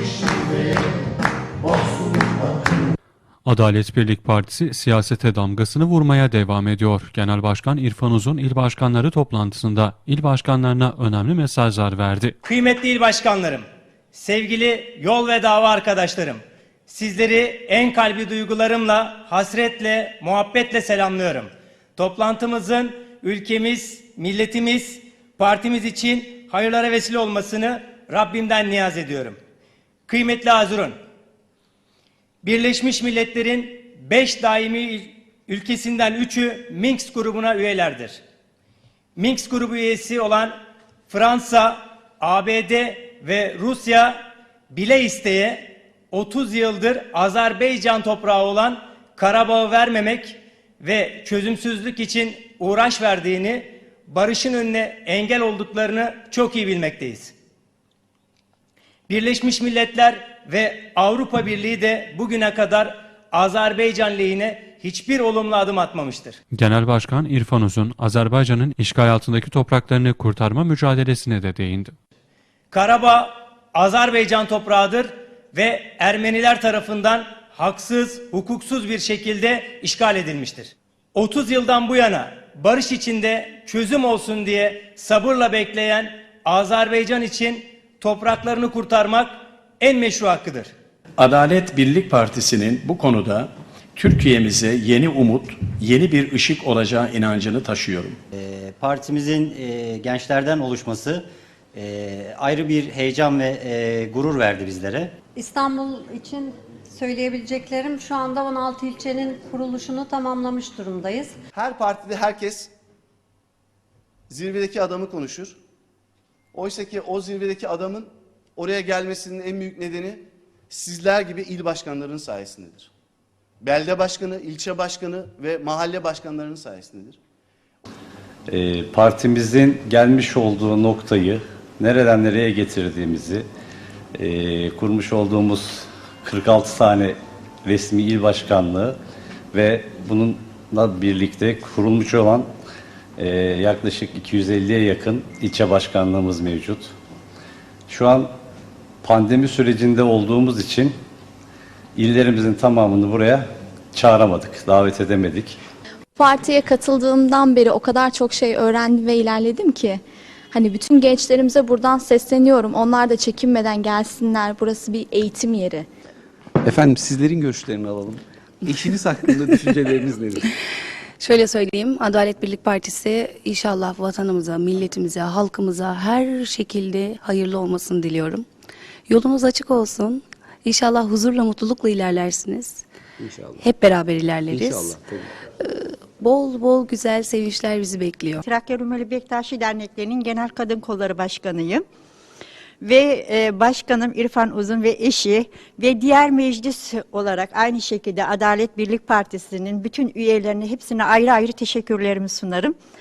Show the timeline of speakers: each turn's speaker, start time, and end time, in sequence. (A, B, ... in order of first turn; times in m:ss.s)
0:03.4-0:12.4 A
0:12.4-0:29.4 B
0:30.1-0:31.0 B
0:32.4-0:38.2 B
0:39.2-0:40.6 B
0:41.1-0:57.3 B
0:59.1-1:06.4 B
1:06.5-1:12.0 A
1:12.7-1:30.7 B
1:31.2-1:38.2 C
1:38.4-1:41.2 D
1:41.8-1:45.1 D
1:45.4-1:51.4 E
1:51.5-1:52.7 F
1:54.3-1:55.6 F
1:56.5-2:02.9 F
2:03.6-2:07.2 F
2:08.5-2:13.5 G
2:14.2-2:19.0 G
2:19.5-2:22.5 G
2:23.2-2:26.9 G
2:27.9-2:28.3 G
2:29.0-2:30.9 G
2:32.0-2:35.6 G
2:36.2-2:40.0 H
2:40.5-2:45.9 H
2:46.6-2:50.4 I
2:51.2-2:58.5 J
2:59.1-3:02.8 J
3:03.2-3:03.6 I
3:03.6-3:05.0 J
3:04.5-3:05.2 I
3:05.6-3:08.4 J
3:08.4-3:11.8 K
3:12.8-3:22.8 K